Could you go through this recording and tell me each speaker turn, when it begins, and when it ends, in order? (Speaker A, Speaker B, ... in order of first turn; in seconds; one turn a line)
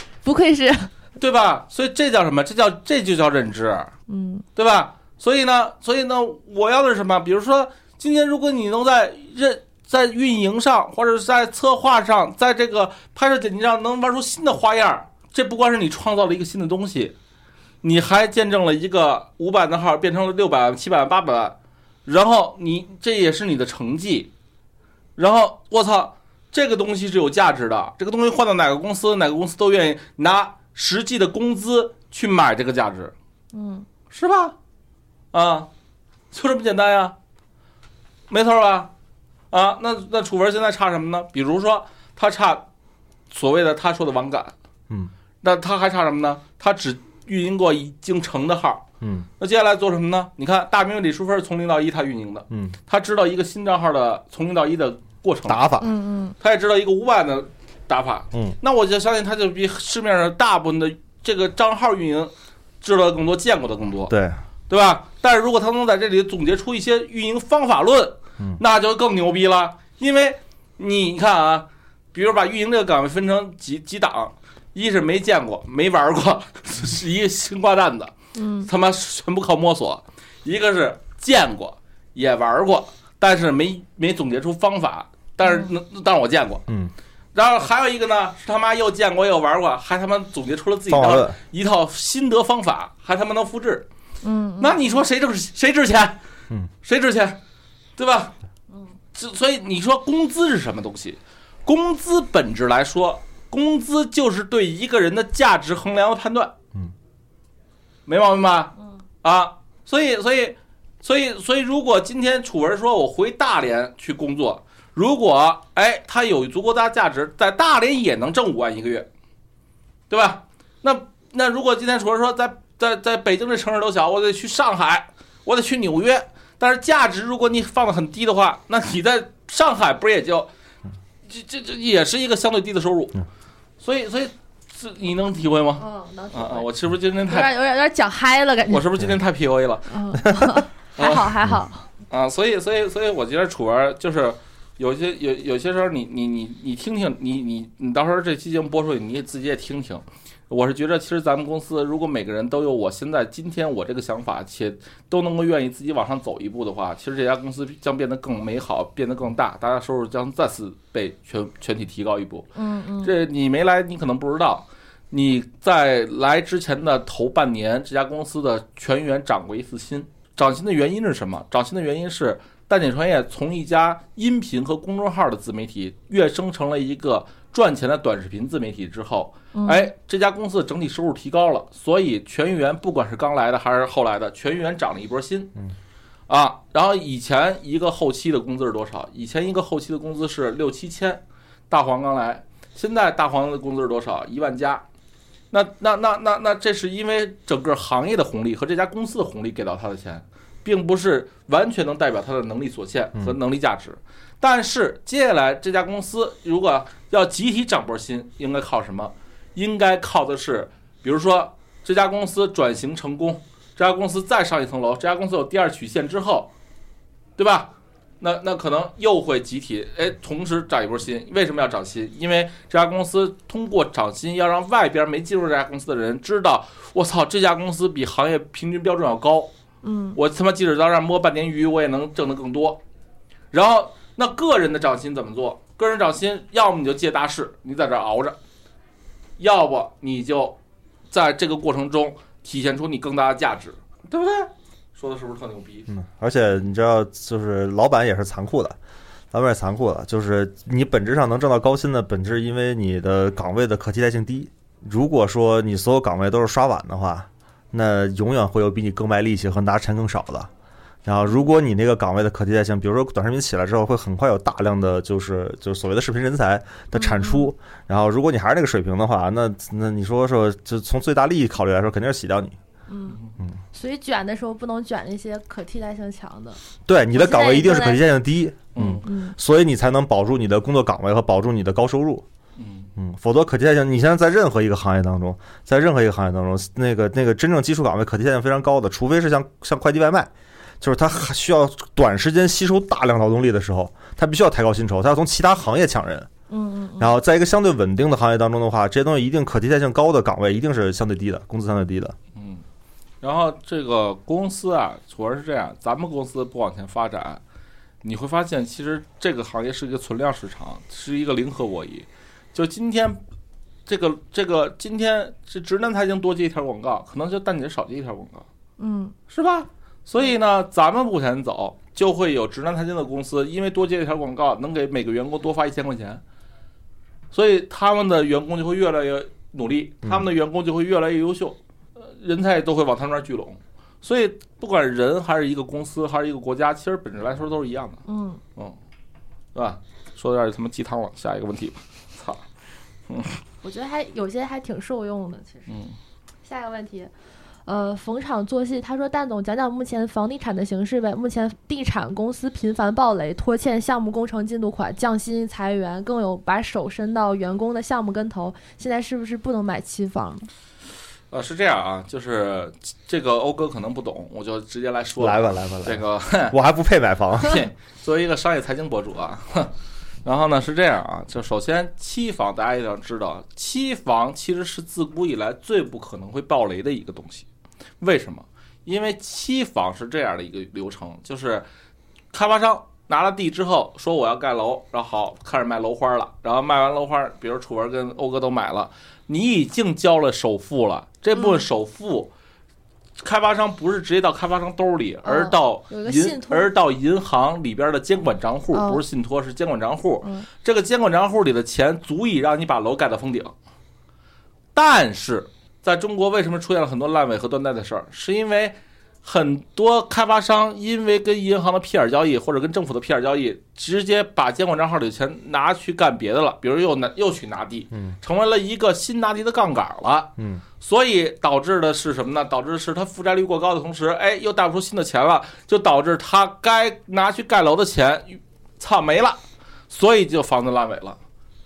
Speaker A: 0.2-0.9
Speaker B: 1.2-3.9
Speaker A: 4.1-4.5
Speaker B: 4.5-17.1
Speaker B: 17.8-24.3
Speaker B: 25.2-33.1
Speaker A: 33.5-33.9
Speaker B: 34.1-34.5
Speaker B: 35.3-35.7
Speaker B: 36.3-37.1
Speaker B: 38.3-38.9
Speaker B: 39.5-42.6
Speaker B: 43.3-44.5
Speaker B: 45.4-48.8
Speaker C: 49.0-49.3
Speaker B: 49.4-55.6
Speaker C: 52.5-52.8
Speaker C: 55.5-55.9
Speaker A: 55.8-56.4
Speaker B: 56.4-64.1
Speaker C: 64.1-64.4
Speaker B: 64.7-78.1
Speaker A: 78.3-78.7
Speaker B: 78.6-86.7
Speaker A: 85.4-85.7
Speaker C: 86.7-86.9
Speaker B: 87.3-93.9
Speaker C: 90.9-91.3
Speaker A: 94.2-94.8
Speaker B: 94.6-96.2
Speaker B: 96.8-97.4
Speaker B: 98.0-98.3
Speaker B: 99.1-106.5
Speaker B: 108.1-119.1
Speaker B: 120.1-130.5
Speaker B: 131.2-133.2
Speaker B: 133.8-137.5
Speaker A: 135.8-136.7
Speaker A: 137.2-138.9
Speaker B: 138.7-139.9
Speaker A: 139.9-141.9
Speaker B: 141.0-141.3
Speaker B: 142.1-162.5
Speaker A: 162.5-163.1
Speaker B: 163.0-185.5
Speaker A: 179.5-179.9
Speaker B: 186.3-194.8
Speaker B: 195.5-216.5
Speaker B: 217.4-229.5
Speaker A: 229.8-230.2
Speaker B: 230.2-232.8
Speaker B: 233.5-238.4
Speaker B: 239.4-240.6
Speaker B: 241.1-245.9
Speaker C: 245.9-248.8
Speaker C: 249.3-260.5
Speaker C: 261.0-272.6
Speaker A: 266.9-267.5
Speaker A: 272.9-273.2
Speaker A: 273.7-276.6
Speaker C: 276.9-282.2
Speaker A: 277.1-278.0
Speaker B: 278.7-279.1
Speaker A: 279.0-279.4
Speaker B: 282.6-282.9
Speaker C: 282.9-290.3
Speaker C: 290.8-296.3
Speaker A: 296.5-297.1
Speaker C: 297.0-302.1
Speaker B: 302.3-302.6
Speaker B: 303.2-307.4
Speaker B: 308.0-313.2
Speaker B: 313.9-318.5
Speaker A: 318.8-319.1
Speaker B: 319.3-326.2
Speaker B: 327.3-338.0
Speaker A: 338.1-338.4
Speaker B: 339.5-342.4
Speaker B: 343.1-343.4
Speaker A: 343.6-345.7
Speaker B: 345.7-345.9
Speaker A: 346.4-347.1
Speaker A: 347.6-360.5
Speaker B: 361.3-366.6
Speaker C: 365.2-367.6
Speaker B: 367.4-369.7
Speaker B: 370.2-377.5
Speaker B: 378.0-381.6
Speaker B: 382.3-392.3
Speaker A: 391.3-391.6
Speaker B: 393.2-403.5
Speaker A: 395.2-396.7
Speaker A: 398.7-399.0
Speaker B: 404.7-431.2
Speaker C: 417.9-418.2
Speaker C: 420.4-420.6